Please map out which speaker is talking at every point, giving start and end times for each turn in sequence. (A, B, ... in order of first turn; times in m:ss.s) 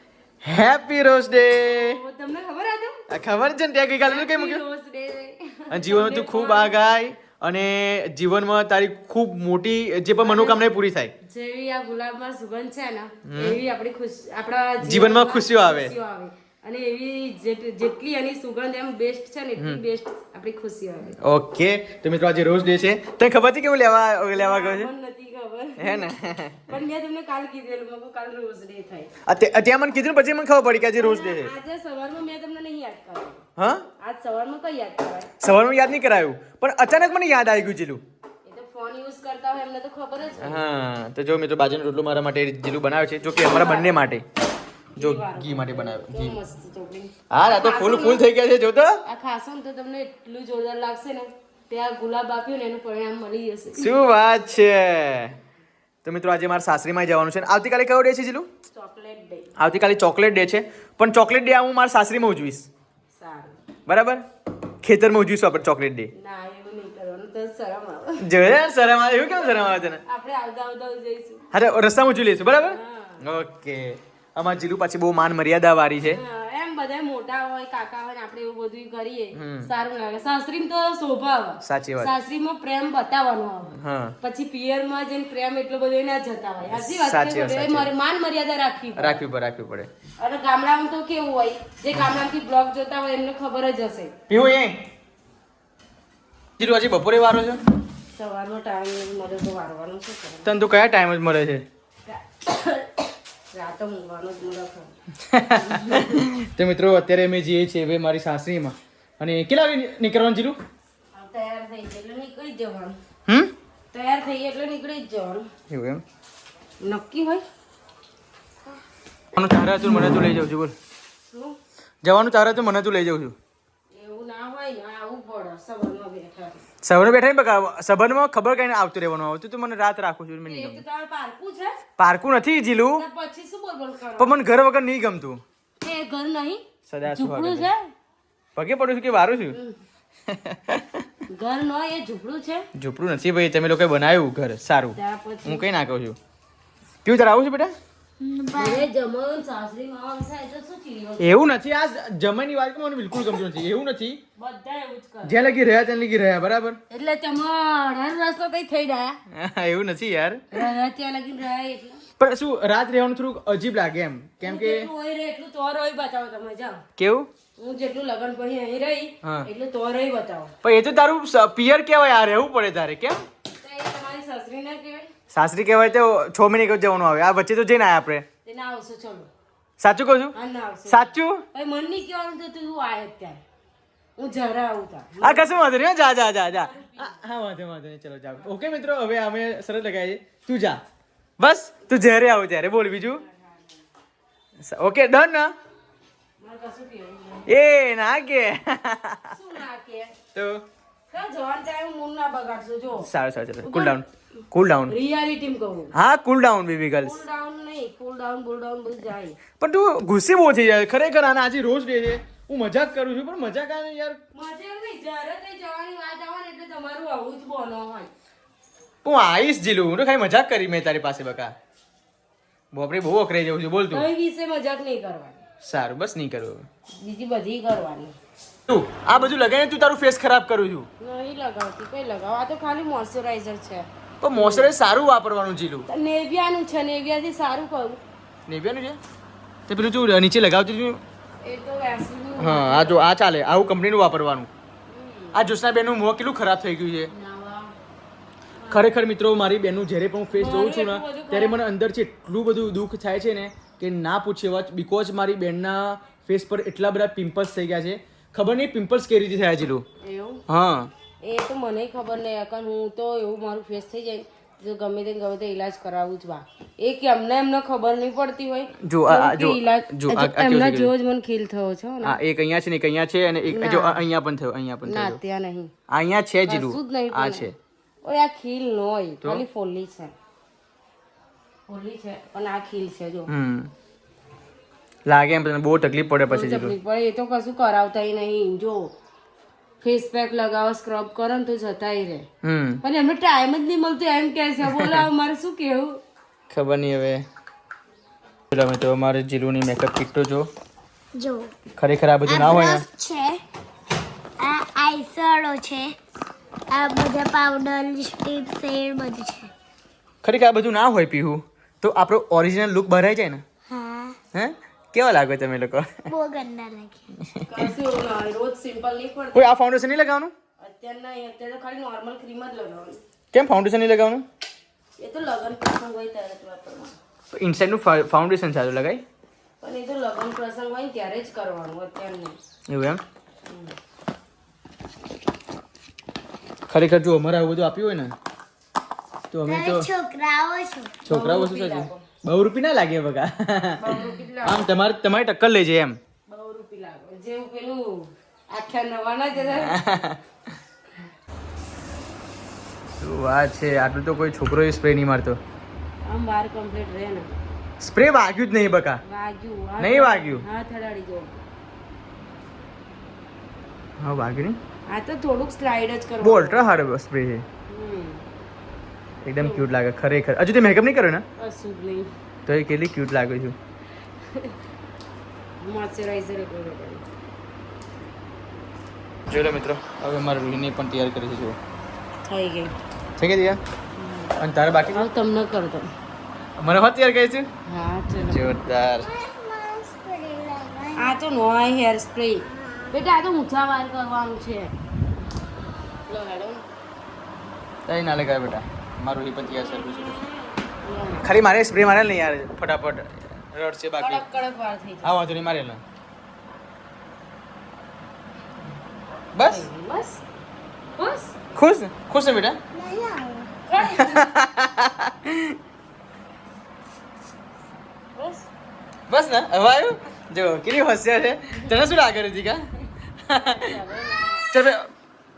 0:00.4-0:02.0 A
0:01.6-0:03.1 B
0:03.1-0:04.6 A
0:04.0-0:06.8 B
0:05.7-0:11.1 A
0:10.2-0:10.6 B
0:11.2-0:21.1 B
0:13.2-0:13.6 A
0:14.8-0:15.9 A
0:21.2-0:24.9 A
0:24.3-0:26.1 B
0:25.8-0:26.6 A
0:26.7-0:29.1 B
0:29.2-0:31.5 A
0:30.8-0:33.4 B
0:33.6-0:33.9 A
0:34.0-0:35.3 B
0:35.4-0:38.0 A
0:38.4-0:40.6 B
0:40.4-0:44.2 A
0:43.3-0:44.1 B
0:45.0-0:46.4 A
0:45.0-0:48.2 B
0:47.3-0:49.0 A
0:49.0-0:53.9 B
0:53.8-0:55.4 A
0:56.0-0:58.5 A
0:58.7-0:59.5 B
0:59.6-1:02.7 A
1:03.1-1:03.6 B
1:03.9-1:04.2 A
1:04.8-1:06.1 A
1:06.1-1:08.3 B
1:08.2-1:10.0 A
1:09.4-1:11.5 B
1:11.5-1:16.2 A
1:12.5-1:13.2 B
1:16.1-1:29.2 B
1:19.3-1:19.7 A
1:21.6-1:22.1 A
1:23.7-1:24.2 A
1:26.7-1:27.9 A
1:29.0-1:29.9 A
1:30.2-1:34.1 B
1:34.3-1:34.8 A
1:36.6-1:37.6 A
1:38.1-1:40.5 B
1:40.4-1:41.6 A
1:42.1-1:44.9 B
1:45.2-1:50.6 A
1:45.6-1:46.2 B
1:51.1-1:53.0 B
1:53.2-1:53.5 A
1:53.9-1:55.5 B
1:55.7-1:56.0 A
1:56.8-1:57.4 B
1:59.3-2:00.7 A
2:01.3-2:01.6 B
2:02.0-2:03.4 A
2:03.9-2:06.6 B
2:06.8-2:10.8 A
2:10.4-2:11.8 B
2:12.0-2:13.0 A
2:13.0-2:14.4 B
2:14.2-2:15.4 A
2:15.8-2:17.9 B
2:16.9-2:17.7 A
2:18.6-2:19.6 A
2:19.5-2:19.8 B
2:20.3-2:21.1 A
2:21.3-2:22.7 B
2:22.7-2:26.2 A
2:25.0-2:25.6 B
2:27.0-2:27.7 A
2:28.2-2:28.9 C
2:28.5-2:31.4 B
2:31.2-2:34.2 A
2:34.4-2:35.4 B
2:35.2-2:36.8 A
2:36.9-2:39.2 B
2:39.3-2:40.6 A
2:40.5-2:42.0 B
2:42.2-2:44.9 A
2:44.4-2:46.8 B
2:47.0-2:47.3 A
2:47.6-2:50.5 B
2:49.2-2:49.5 A
2:50.6-2:53.2 A
2:53.6-2:55.1 B
2:55.3-2:58.2 A
2:58.4-2:59.3 B
2:59.8-3:00.4 A
3:00.3-3:03.4 B
3:00.9-3:01.4 A
3:04.2-3:05.7 B
3:05.2-3:10.8 A
3:06.5-3:07.2 B
3:11.4-3:13.2 A
3:13.2-3:13.6 B
3:14.6-3:15.5 A
3:16.4-3:17.5 B
3:17.5-3:19.4 A
3:19.3-3:20.1 B
3:20.3-3:20.6 A
3:21.1-3:23.1 B
3:23.0-3:24.9 A
3:23.6-3:24.0 B
3:24.9-3:25.9 B
3:25.9-3:27.2 A
3:27.0-3:29.4 B
3:29.6-3:34.2 A
3:34.3-3:38.1 B
3:39.0-3:41.5 A
3:42.7-3:44.0 A
3:43.9-3:45.4 B
3:45.6-3:46.7 A
3:47.0-3:48.2 B
3:48.7-3:50.9 A
3:51.0-3:54.7 B
3:54.2-3:55.9 A
3:55.9-3:58.0 B
3:58.5-3:59.0 A
3:59.7-4:01.0 A
4:01.4-4:03.0 B
4:02.4-4:04.5 A
4:04.9-4:05.4 B
4:05.3-4:07.1 A
4:07.1-4:07.7 B
4:08.6-4:08.9 B
4:08.7-4:19.8 A
4:10.4-4:11.6 B
4:20.0-4:20.4 B
4:20.5-4:20.9 A
4:21.2-4:32.2 B
4:28.8-4:30.9 A
4:32.0-4:35.2 A
4:33.5-4:34.0 B
4:34.8-4:35.7 B
4:35.9-4:37.5 A
4:36.4-4:37.5 B
4:38.0-4:40.1 B
4:41.7-4:43.3 B
4:43.3-4:43.7 A
4:45.0-4:46.7 A
4:46.3-4:48.9 B
4:49.8-4:52.3 B
4:52.4-4:52.8 A
4:52.8-4:56.0 B
4:54.6-4:55.0 A
4:56.5-4:57.2 A
4:58.5-5:00.5 A
5:01.1-5:01.5 C
5:01.8-5:02.8 A
5:02.2-5:03.4 C
5:04.4-5:06.0 C
5:06.7-5:09.5 C
5:10.2-5:13.4 A
5:13.7-5:14.2 C
5:14.3-5:16.0 A
5:16.1-5:17.0 C
5:17.2-5:17.6 A
5:17.5-5:19.5 B
5:19.3-5:20.3 A
5:20.6-5:23.0 B
5:23.3-5:24.2 A
5:25.0-5:27.0 B
5:27.3-5:29.0 A
5:29.6-5:32.4 B
5:32.7-5:33.0 A
5:33.5-5:33.7 B
5:36.7-5:38.1 A
5:39.3-5:39.9 A
5:39.4-5:41.0 C
5:41.0-5:46.0 A
5:41.0-5:42.0 B
5:43.8-5:44.7 B
5:46.3-5:49.8 B
5:49.6-5:50.2 A
5:53.0-5:55.4 A
5:56.0-5:57.3 B
5:57.8-5:59.0 A
5:59.0-6:01.4 B
5:59.8-6:00.4 A
6:04.0-6:04.6 A
6:04.9-6:06.6 B
6:06.2-6:07.4 A
6:07.7-6:08.2 B
6:09.2-6:11.2 A
6:09.4-6:09.7 B
6:11.4-6:12.1 B
6:12.4-6:13.6 A
6:14.3-6:14.6 B
6:15.6-6:17.0 B
6:19.3-6:21.6 A
6:22.2-6:22.7 B
6:23.2-6:23.6 A
6:24.0-6:25.9 B
6:24.4-6:25.1 A
6:26.6-6:27.5 A
6:27.6-6:28.4 B
6:28.2-6:29.1 A
6:29.0-6:31.1 C
6:31.0-6:34.7 B
6:32.5-6:32.9 C
6:36.1-6:36.6 B
6:37.9-6:40.2 A
6:40.8-6:41.3 B
6:41.2-6:44.2 A
6:44.0-6:45.2 B
6:45.0-6:45.8 A
6:49.3-6:49.6 A
6:49.4-6:50.2 B
6:51.0-6:51.3 B
6:51.5-6:52.6 A
6:52.7-6:53.5 C
6:53.7-6:54.3 B
6:53.8-6:55.6 A
6:58.1-6:58.5 B
6:59.1-7:02.7 A
7:03.2-7:03.7 A
7:03.3-7:04.5 B
7:04.5-7:04.9 A